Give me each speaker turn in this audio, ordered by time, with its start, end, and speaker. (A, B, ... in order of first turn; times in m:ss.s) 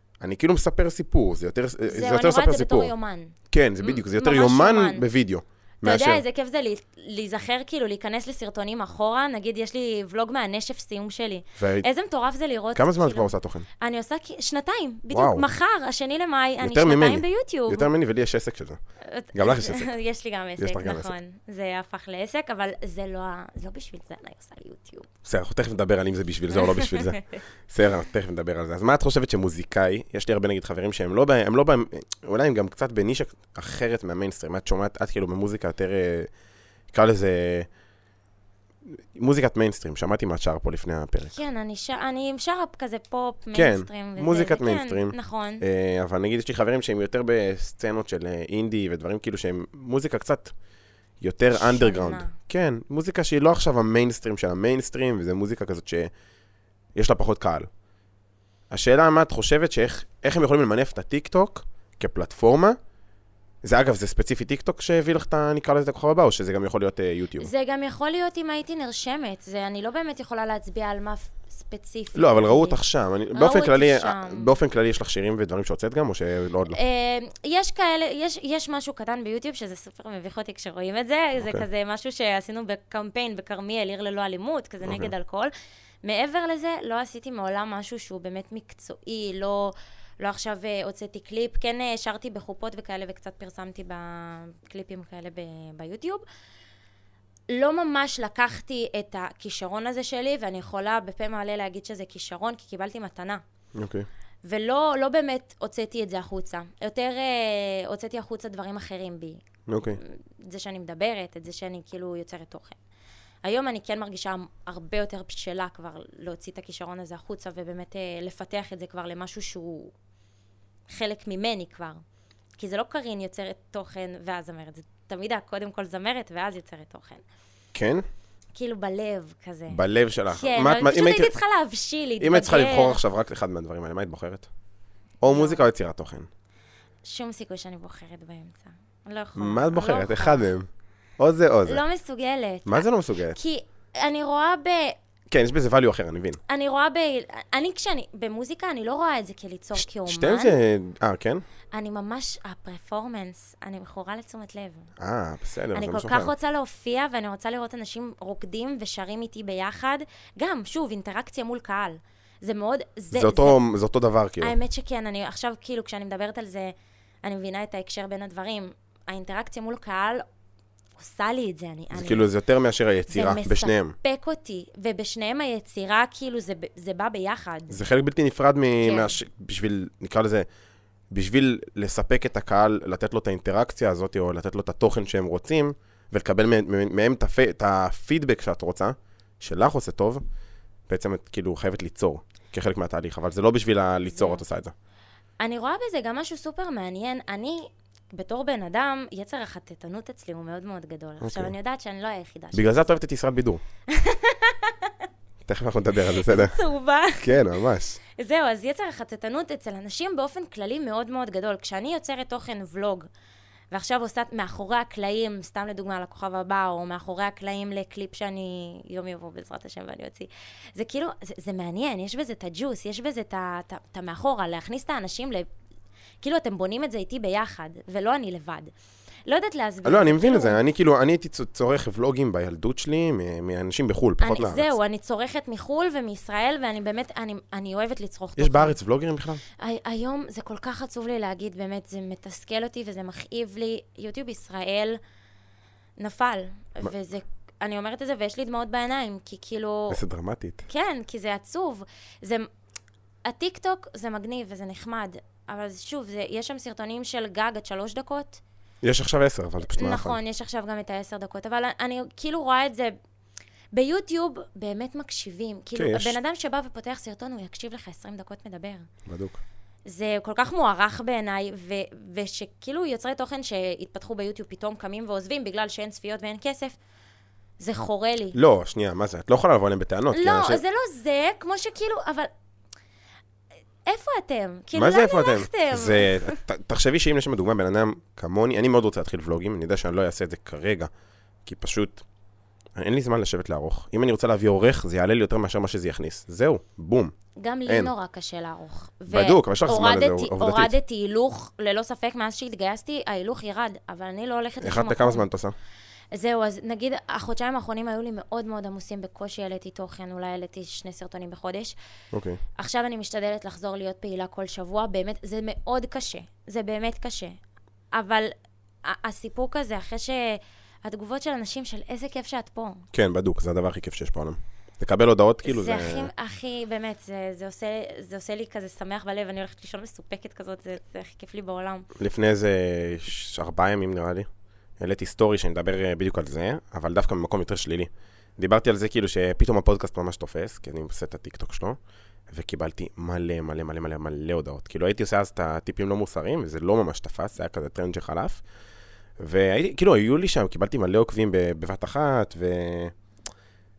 0:00.2-0:02.9 A
0:01.9-0:05.0 B
0:03.5-0:06.2 A
0:05.8-0:17.9 B
0:11.6-0:11.9 A
0:12.8-0:13.7 A
0:15.1-0:15.4 A
0:16.6-0:18.8 A
0:19.0-0:25.1 B
0:19.3-0:19.9 A
0:20.6-0:21.1 A
0:25.2-0:36.3 A
0:26.5-0:27.3 B
0:36.9-0:37.7 A
0:38.9-0:41.3 A
0:41.3-0:45.6 B
0:43.5-0:50.5 A
0:51.2-0:56.1 A
0:51.5-0:52.4 B
0:56.9-0:57.7 A
0:58.7-1:02.8 A
1:03.6-1:07.5 A
1:07.4-1:12.8 B
1:12.1-1:16.8 A
1:13.3-1:14.6 B
1:16.7-1:25.5 B
1:21.4-1:21.7 A
1:24.8-1:25.1 A
1:26.0-1:36.2 B
1:37.5-1:43.4 B
1:43.8-1:44.1 A
1:44.5-1:49.4 B
1:49.7-1:50.0 A
1:50.0-1:52.8 B
1:53.4-1:59.9 B
2:00.9-2:02.0 B
2:02.6-2:07.2 B
2:07.7-2:08.0 A
2:08.6-2:13.0 B
2:09.7-2:11.3 A
2:12.2-2:14.5 A
2:15.2-2:16.3 A
2:15.3-2:15.7 B
2:17.0-2:20.6 B
2:19.4-2:20.7 A
2:21.2-2:21.8 A
2:21.6-2:25.0 B
2:22.6-2:23.4 A
2:25.3-2:26.4 A
2:26.5-2:30.6 B
2:29.8-2:31.4 A
2:31.7-2:34.9 B
2:35.0-2:36.3 A
2:35.7-2:43.6 B
2:43.1-2:44.6 A
2:44.4-2:46.7 B
2:47.2-2:50.2 B
2:51.0-2:52.3 B
2:51.9-2:54.0 A
2:53.1-2:57.8 B
2:57.7-3:00.5 A
2:58.8-2:59.1 B
3:01.1-3:10.2 A
3:10.9-3:14.7 A
3:14.2-3:14.4 B
3:15.4-3:22.7 B
3:21.2-3:21.5 A
3:22.5-3:23.6 A
3:23.9-3:24.9 B
3:25.4-3:26.6 A
3:26.0-3:27.5 B
3:27.2-3:28.0 A
3:28.1-3:33.1 B
3:33.7-3:45.5 B
3:46.2-3:48.7 B
3:49.3-3:50.6 B
3:49.8-3:54.7 A
3:54.2-3:58.8 B
3:58.4-3:59.4 A
3:59.6-4:05.0 B
4:06.0-4:10.0 B
4:09.9-4:10.6 A
4:10.7-4:12.5 B
4:13.2-4:18.4 B
4:18.8-4:20.2 A
4:19.7-4:22.9 B
4:23.7-4:28.9 B
4:25.8-4:26.2 A
4:29.1-4:29.4 A
4:29.9-4:36.8 B
4:37.6-4:38.4 B
4:38.3-4:40.6 A
4:40.1-4:42.3 B
4:43.9-4:46.4 B
4:44.7-4:50.9 A
4:51.4-4:52.0 A
4:52.8-4:57.1 A
4:57.4-5:05.2 B
4:59.1-5:00.8 A
5:04.6-5:05.5 A
5:06.1-5:11.8 B
5:12.1-5:12.4 A
5:12.6-5:17.4 B
5:17.9-5:18.3 B
5:18.8-5:22.8 B
5:22.9-5:26.1 A
5:25.4-5:31.9 B
5:32.0-5:34.3 A
5:34.8-5:41.8 A
5:42.3-5:48.4 A
5:49.2-5:52.9 A